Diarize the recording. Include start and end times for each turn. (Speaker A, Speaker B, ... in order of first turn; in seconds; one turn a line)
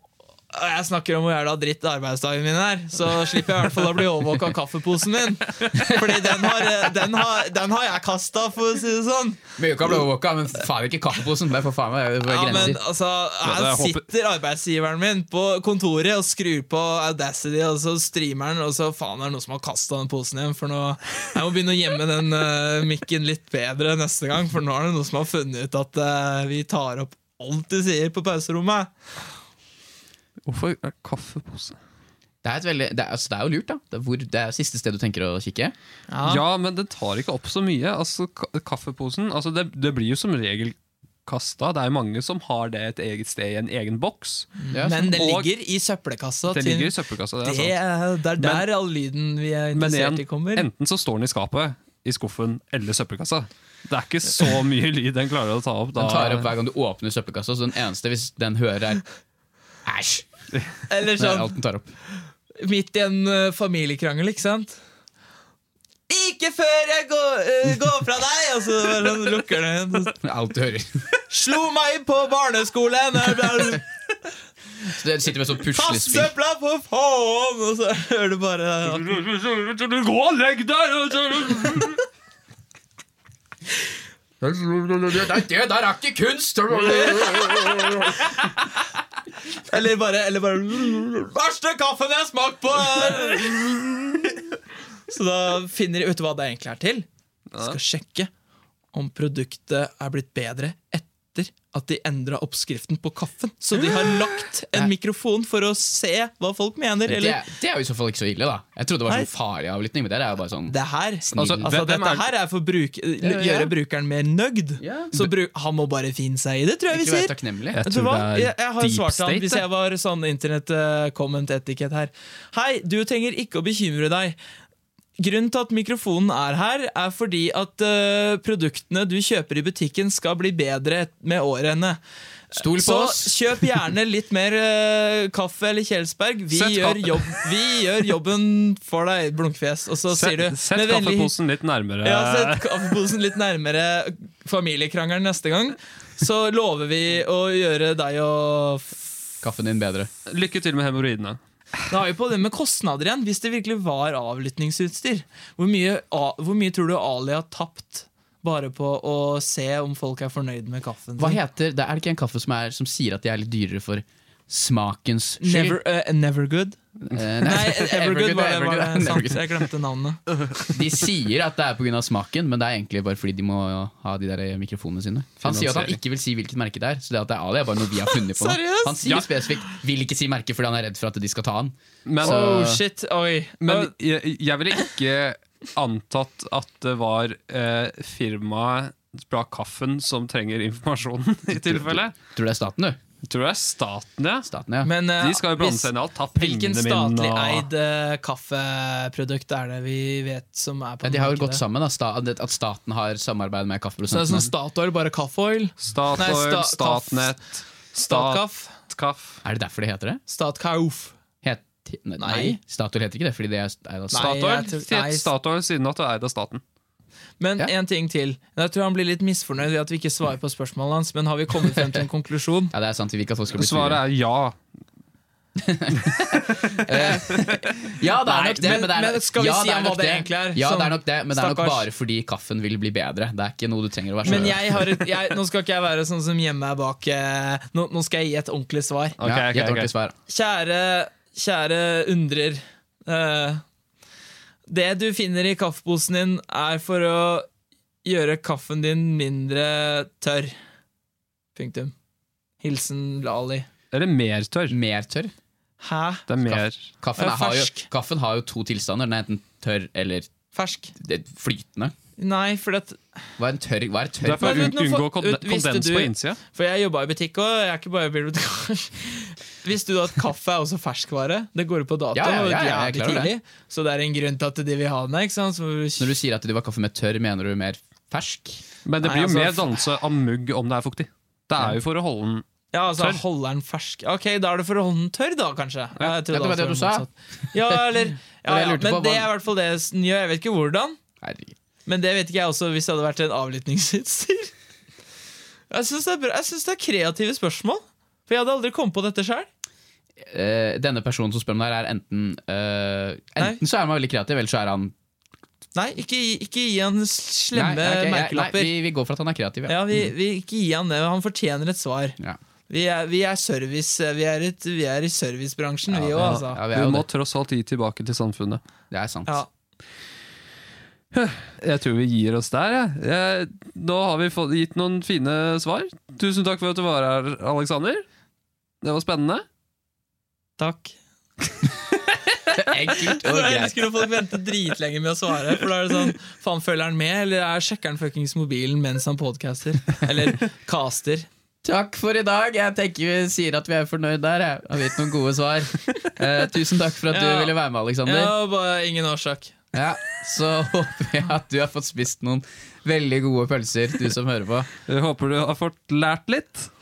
Speaker A: 0.5-9.4
Speaker B: 5.7-6.5
Speaker B: 9.6-12.8
Speaker A: 12.3-28.9
Speaker C: 13.4-14.1
Speaker C: 30.4-31.8
Speaker B: 32.4-35.7
Speaker A: 36.1-36.4
Speaker C: 36.2-45.5
Speaker A: 44.6-50.7
Speaker B: 44.7-45.1
Speaker C: 46.5-47.8
Speaker C: 48.4-48.7
Speaker C: 49.7-56.5
Speaker B: 56.0-59.0
Speaker B: 59.9-60.3
Speaker A: 60.9-61.5
Speaker B: 61.2-61.9
Speaker A: 62.6-64.8
Speaker A: 66.1-70.2
Speaker B: 70.2-71.0
Speaker A: 71.3-73.8
Speaker B: 74.8-76.3
Speaker A: 75.7-79.2
Speaker C: 79.0-82.0
Speaker B: 84.4-88.5
Speaker A: 86.8-88.1
Speaker A: 89.5-94.5
Speaker A: 95.1-97.1
Speaker C: 97.5-97.8
Speaker A: 97.6-98.3
Speaker A: 98.9-107.4
Speaker B: 107.1-111.7
Speaker A: 110.7-124.4
Speaker C: 111.4-112.2
Speaker B: 113.2-113.7
Speaker B: 114.8-115.3
Speaker B: 116.9-117.8
Speaker C: 117.7-119.6
Speaker A: 125.2-132.0
Speaker B: 132.5-133.4
Speaker A: 132.5-141.3
Speaker C: 136.5-137.5
Speaker C: 140.1-142.9
Speaker A: 142.0-149.1
Speaker B: 149.4-150.1
Speaker C: 150.3-151.4
Speaker A: 151.9-161.4
Speaker B: 161.2-165.8
Speaker A: 165.4-166.8
Speaker B: 167.1-169.5
Speaker A: 167.4-170.2
Speaker B: 170.7-182.8
Speaker C: 175.4-176.0
Speaker A: 178.1-179.4
Speaker C: 182.1-182.8
Speaker A: 182.2-183.9
Speaker C: 183.6-192.1
Speaker B: 191.5-193.0
Speaker C: 193.2-194.5
Speaker B: 194.5-194.9
Speaker A: 194.8-201.6
Speaker C: 195.2-197.7
Speaker B: 201.0-204.5
Speaker A: 204.1-207.4
Speaker C: 205.8-209.4
Speaker A: 208.1-208.8
Speaker B: 209.4-210.2
Speaker A: 210.3-211.2
Speaker B: 211.4-214.3
Speaker A: 212.2-212.6
Speaker A: 214.1-215.3
Speaker C: 214.1-216.6
Speaker A: 217.4-222.7
Speaker B: 222.7-224.0
Speaker C: 223.5-224.6
Speaker B: 225.6-235.1
Speaker C: 226.5-227.8
Speaker A: 228.2-231.9
Speaker A: 234.2-239.2
Speaker C: 239.2-239.9
Speaker B: 239.2-240.2
Speaker A: 240.3-243.6
Speaker A: 244.7-247.5
Speaker A: 248.0-250.6
Speaker A: 251.6-251.9
Speaker A: 252.6-253.7
Speaker C: 253.9-254.8
Speaker B: 254.7-255.3
Speaker A: 255.8-256.3
Speaker C: 256.3-256.9
Speaker B: 256.4-260.3
Speaker A: 257.2-257.9
Speaker A: 260.5-260.9
Speaker B: 261.0-261.9
Speaker A: 262.2-263.0
Speaker B: 263.4-264.7
Speaker C: 264.2-266.4
Speaker A: 264.4-276.1
Speaker B: 272.1-273.3
Speaker B: 276.0-278.6
Speaker C: 278.9-283.2
Speaker A: 279.0-279.9
Speaker A: 282.7-291.0
Speaker B: 286.2-287.8
Speaker B: 288.5-289.3
Speaker B: 291.2-291.6
Speaker A: 291.9-294.5
Speaker A: 295.7-299.5
Speaker B: 300.3-304.9
Speaker A: 305.8-308.7
Speaker B: 307.5-310.1
Speaker A: 309.7-312.2
Speaker A: 312.7-316.6
Speaker B: 315.9-317.1
Speaker C: 316.2-318.6
Speaker B: 318.9-319.4
Speaker C: 321.1-328.0
Speaker C: 328.8-329.4
Speaker A: 330.6-330.9
Speaker B: 332.5-334.1
Speaker A: 332.9-341.3
Speaker B: 341.6-348.3
Speaker A: 347.1-349.6
Speaker B: 349.7-354.7
Speaker C: 354.9-356.7